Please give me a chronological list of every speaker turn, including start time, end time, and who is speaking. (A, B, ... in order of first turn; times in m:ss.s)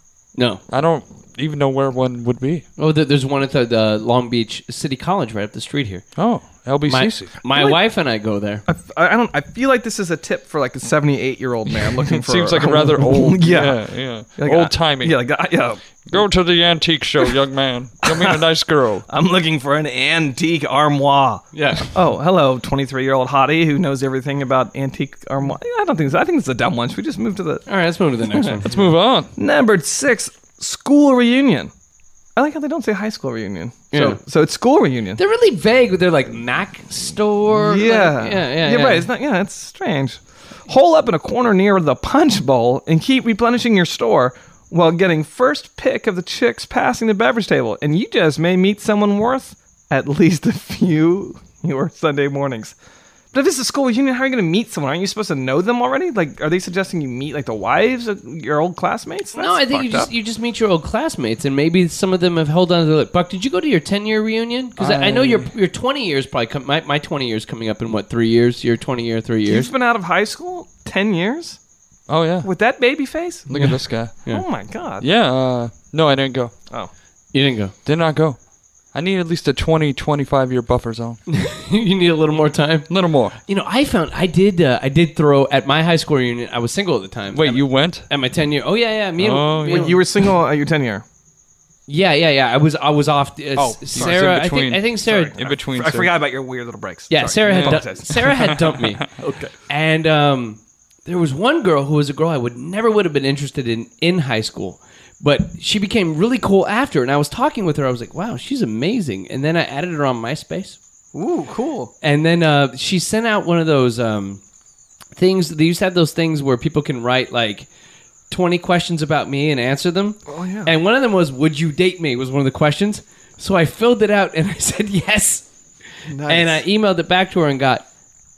0:00.3-0:00.6 A
0:00.7-0:02.6 B
0:02.8-0:06.0 A
0:06.2-0:07.3 B
0:06.9-0:08.6 A
0:07.5-0:07.8 C
0:08.7-0:16.0 C
0:11.9-0:15.2 B
0:16.0-0:19.0 B
0:18.0-0:18.4 C
0:19.1-0:27.6 C
0:21.5-0:21.9 A
0:27.7-0:28.7 A
0:28.3-0:28.6 C
0:28.6-0:29.3 B
0:29.4-0:31.7 C
0:32.4-0:35.2 C
0:33.9-0:34.2 A
0:35.2-0:39.1 A
0:37.5-0:52.7 C
0:53.3-1:00.1 C
0:59.4-1:09.7 A
1:04.8-1:05.5 B
1:09.5-1:11.6 C
1:12.1-1:12.5 B
1:12.4-1:13.5 C
1:13.5-1:14.1 B
1:13.5-1:14.4 A
1:14.3-1:15.1 C
1:15.0-1:16.5 B
1:17.3-1:17.7 A
1:17.8-1:18.4 B
1:18.9-1:21.2 B
1:21.3-1:22.9 A
1:22.9-1:23.4 B
1:23.4-1:30.0 A
1:27.3-1:28.1 B
1:29.2-1:30.0 B
1:29.6-1:31.0 C
1:31.9-1:35.3 A
1:33.6-1:34.2 C
1:33.9-1:36.1 B
1:35.0-1:38.3 C
1:37.1-1:39.1 A
1:37.4-1:38.8 B
1:39.2-1:39.5 C
1:39.7-1:50.8 A
1:51.1-1:51.9 C
1:52.0-1:54.4 A
1:55.2-1:57.7 A
1:58.3-2:05.5 A
2:00.3-2:00.7 C
2:06.1-2:06.6 C
2:06.2-2:07.8 A